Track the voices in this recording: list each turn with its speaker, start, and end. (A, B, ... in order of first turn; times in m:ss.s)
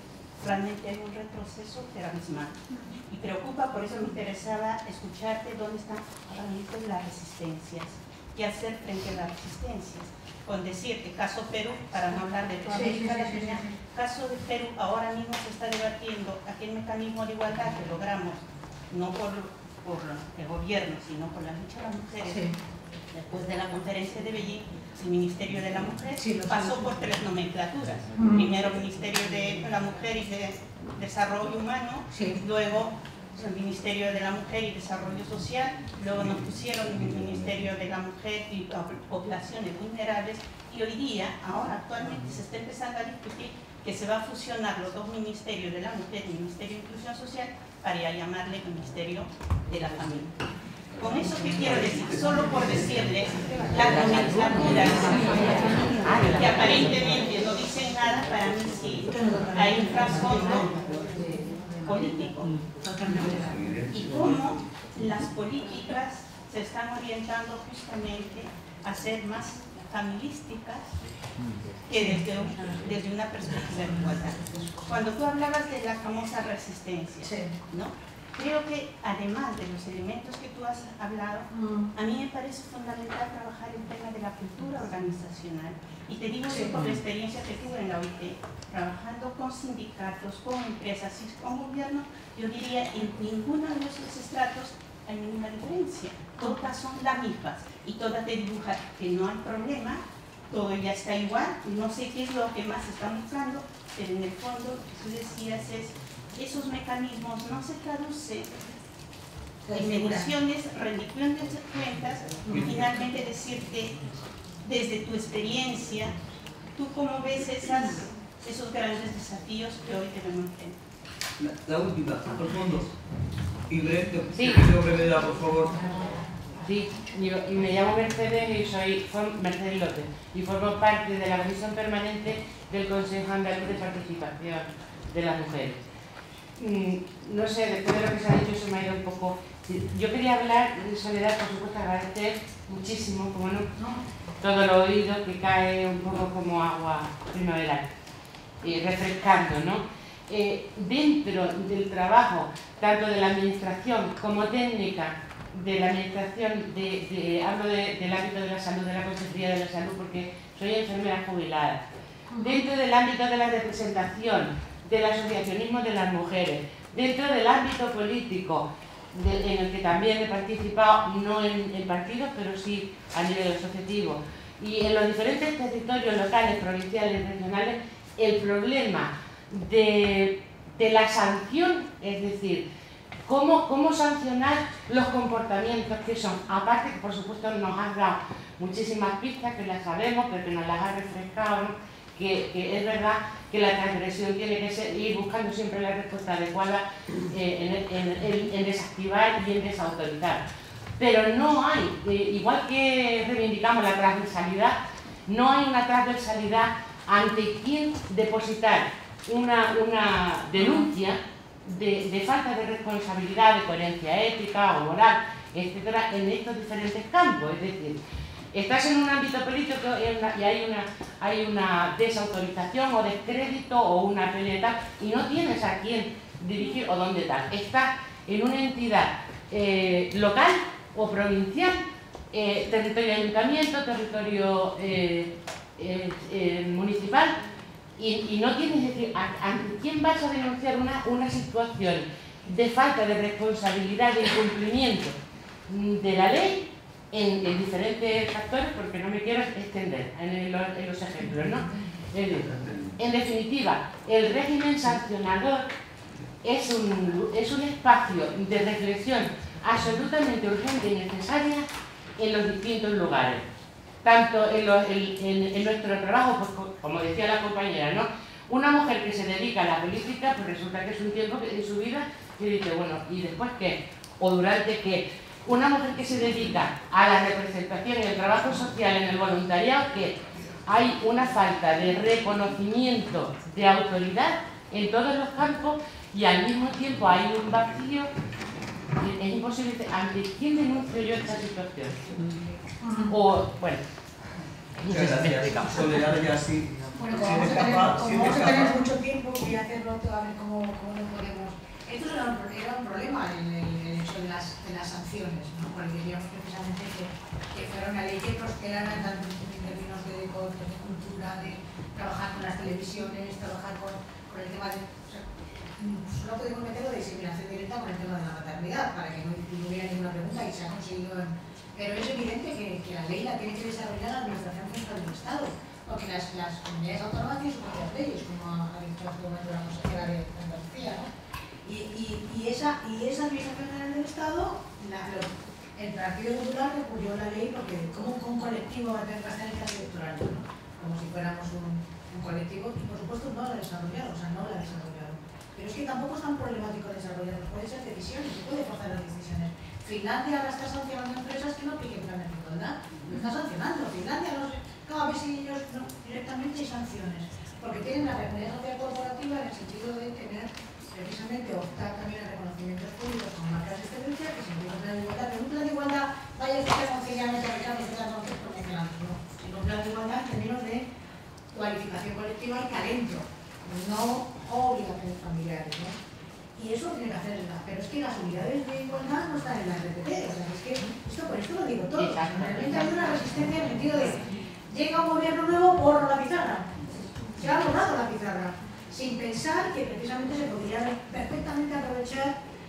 0:00.4-0:22.5 A
0:12.7-0:13.7 B
0:22.2-0:22.6 B
0:23.2-0:50.3 A
0:26.2-0:27.0 B
0:32.1-0:32.4 B
0:51.0-1:00.8 A
0:51.5-0:52.2 C
0:54.2-0:57.0 D
0:59.2-1:01.2 B
1:01.8-1:02.5 A
1:02.8-1:03.5 B
1:03.1-1:04.4 C
1:03.9-1:10.9 A
1:11.9-1:48.5 A
1:49.6-1:50.3 B
1:49.7-1:54.0 A
1:52.5-1:52.8 C
1:54.6-1:56.1 A
1:56.8-2:00.8 A
2:01.4-2:02.9 C
2:03.7-2:05.8 C
2:04.4-2:04.7 D
2:06.6-2:15.8 D
2:16.6-2:23.7 D
2:24.4-2:27.9 D
2:28.6-2:41.8 D
2:42.3-3:02.6 D
3:03.2-3:20.4 D
3:21.0-3:38.0 D
3:38.5-3:57.4 D
3:58.0-4:05.2 D
4:05.7-4:15.7 D
4:12.4-4:12.9 C
4:16.4-4:21.7 D
4:22.2-4:23.4 D
4:24.0-4:48.1 D
4:49.0-4:52.2 D
4:53.0-4:53.8 D
4:54.8-4:58.8 C
4:54.9-4:55.4 D
4:57.0-5:31.1 B
5:31.6-6:10.8 B
6:11.5-6:16.0 B
6:16.6-6:26.7 B
6:22.0-6:23.3 D
6:27.4-6:32.4 B